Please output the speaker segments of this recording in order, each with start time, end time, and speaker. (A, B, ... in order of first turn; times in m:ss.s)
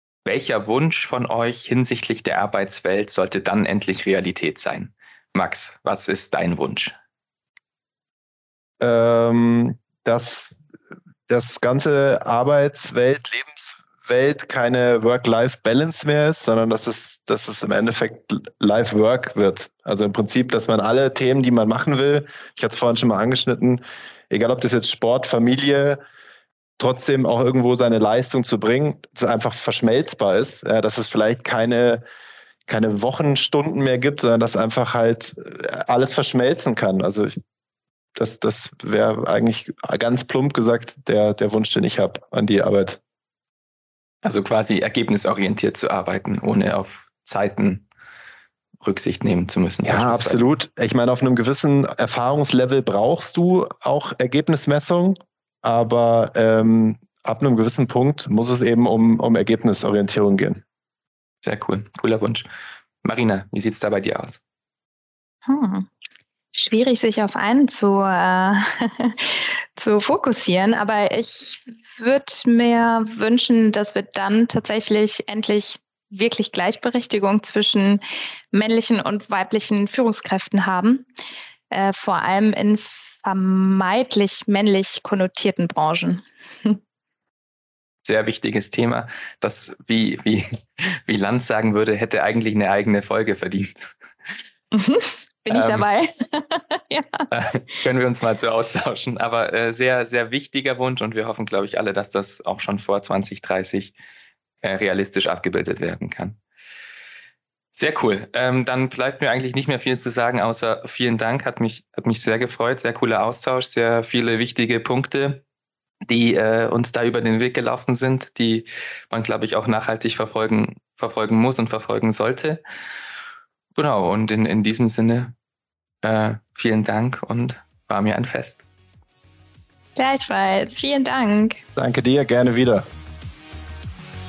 0:00.2-0:06.9 A
0:08.8-0:10.6 B
0:11.3-0:26.0 B
0:26.8-0:32.0 B
0:32.7-0:37.3 B
0:38.2-0:43.0 B
0:44.2-0:47.8 A
0:48.8-0:50.4 A
0:49.8-1:00.6 B
1:01.4-1:02.4 A
1:03.0-1:04.4 A
1:05.5-1:05.9 C
1:06.5-1:21.1 C
1:21.7-1:26.8 C
1:28.0-1:33.9 A
1:34.7-1:37.3 C
1:35.5-1:35.8 A
1:37.3-1:43.9 A
1:44.6-1:46.4 A
1:47.7-1:55.4 A
1:56.1-2:02.6 A
2:03.8-2:05.3 A
2:06.0-2:08.6 A
2:10.0-2:11.6 C
2:11.7-2:12.8 B